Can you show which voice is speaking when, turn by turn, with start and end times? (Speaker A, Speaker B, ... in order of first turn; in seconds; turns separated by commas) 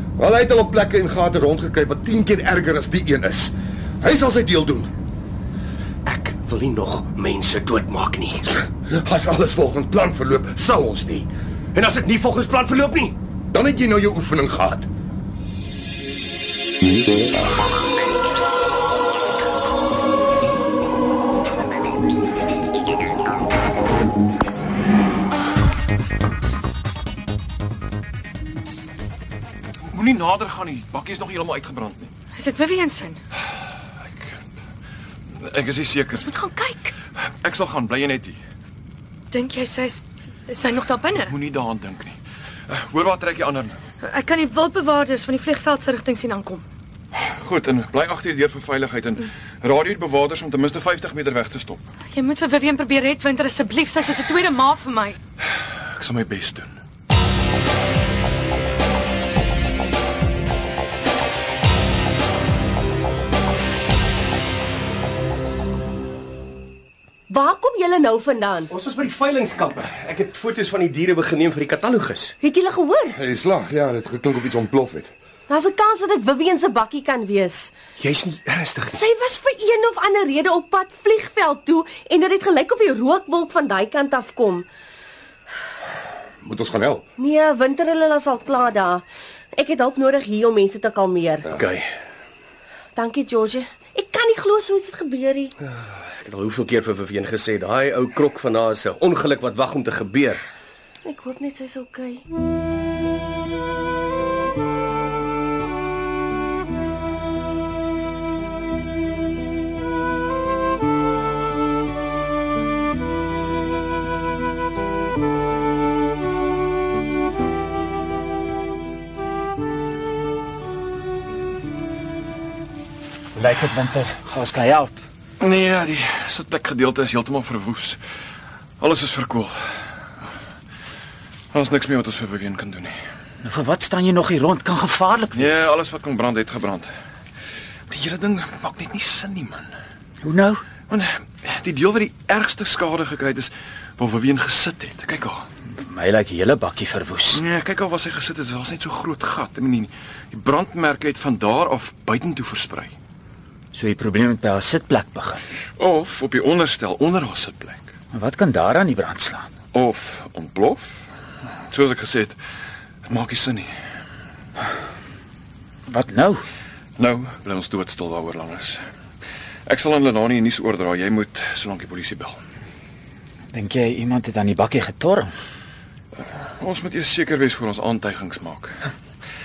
Speaker A: 0.2-4.9, Speaker B: 6.1-8.4, Speaker A: 8.7-11.3, Speaker B: 11.8-13.2, Speaker A: 13.5-14.9, Speaker C: 29.9-32.1, Speaker D: 32.4-33.2, Speaker C: 35.3-36.3, Speaker D: 36.1-36.9, Speaker C: 37.1-38.4, Speaker D: 39.3-41.3, Speaker C: 41.1-43.8, Speaker D: 44.0-46.6, Speaker C: 47.1-51.9, Speaker D: 52.1-55.2, Speaker C: 55.9-56.8, Speaker E: 67.3-68.7, Speaker B: 68.7-72.3, Speaker E: 72.4-73.2, Speaker A: 73.1-75.1, Speaker E: 75.5-77.7, Speaker B: 78.0-79.0, Speaker E: 78.9-84.7, Speaker A: 86.4-87.0, Speaker E: 87.2-89.0, Speaker E: 89.5-91.6, Speaker B: 91.5-91.9, Speaker E: 93.0-95.5, Speaker B: 95.7-100.4, Speaker E: 101.0-102.2, Speaker F: 123.4-125.0, Speaker C: 125.4-128.0, Speaker C: 128.8-130.0, Speaker C: 131.5-133.0, Speaker F: 133.4-135.7, Speaker C: 135.3-136.9, Speaker C: 137.9-139.7, Speaker F: 140.2-140.6, Speaker C: 140.9-145.5, Speaker F: 145.8-147.4, Speaker C: 147.3-152.9, Speaker F: 153.7-155.4, Speaker C: 155.8-157.9, Speaker F: 158.1-159.5, Speaker C: 159.7-161.1, Speaker C: 161.7-162.4, Speaker C: 163.1-163.7, Speaker F: 165.9-166.4, Speaker C: 167.0-168.8, Speaker C: 169.7-172.4, Speaker F: 173.5-175.3, Speaker C: 176.2-178.9